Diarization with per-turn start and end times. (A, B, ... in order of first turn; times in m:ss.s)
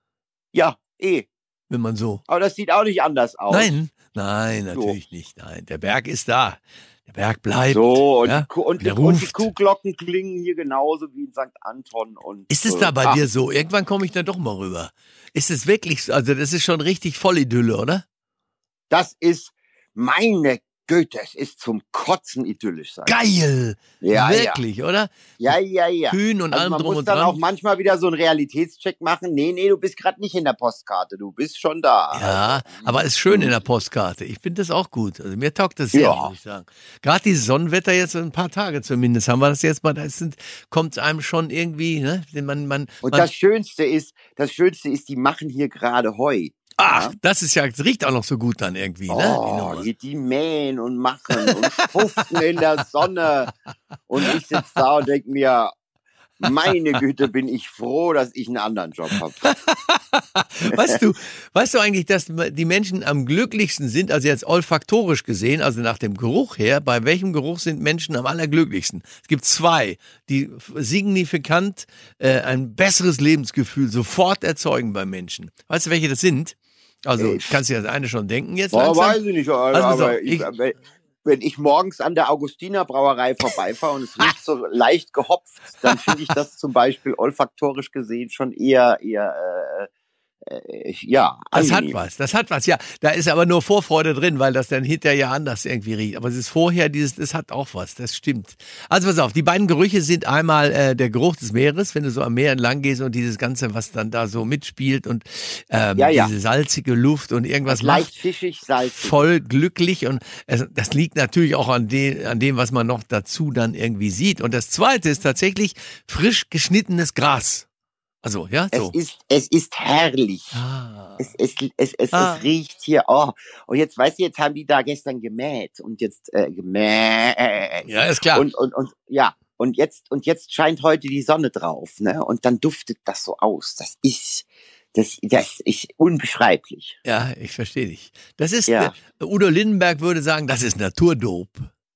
0:00.5-0:01.3 A
0:01.7-0:02.2 B
0:02.3-0:03.8 A
0:03.5-0:09.5 B
0:04.7-0:05.0 A
0:07.7-0:13.2 A
0:12.5-0:18.0 B
0:18.9-0:23.2 A
0:23.0-0:25.6 B
0:24.0-0:24.6 A
0:25.4-0:33.6 A
0:26.1-0:27.4 B
0:32.1-0:43.3 B
0:35.9-0:36.3 A
0:43.0-0:47.1 A
0:46.8-0:49.9 B
0:49.1-0:53.5 A
0:51.4-0:51.9 B
0:54.1-0:55.7 A
0:56.4-0:59.4 A
0:59.4-1:19.2 B
1:00.7-1:01.0 A
1:17.2-1:17.6 A
1:18.7-1:29.9 A
1:19.7-1:20.5 B
1:30.4-1:32.0 A
1:31.5-1:48.1 B
1:46.0-1:46.3 A
1:47.6-1:49.2 A
1:48.8-1:57.6 B
1:58.2-1:58.9 B
1:58.7-2:00.6 A
2:00.5-2:01.3 B
2:01.2-2:16.9 A
2:02.1-2:02.4 B
2:07.8-2:08.5 B
2:17.0-2:21.7 B
2:18.7-2:18.9 A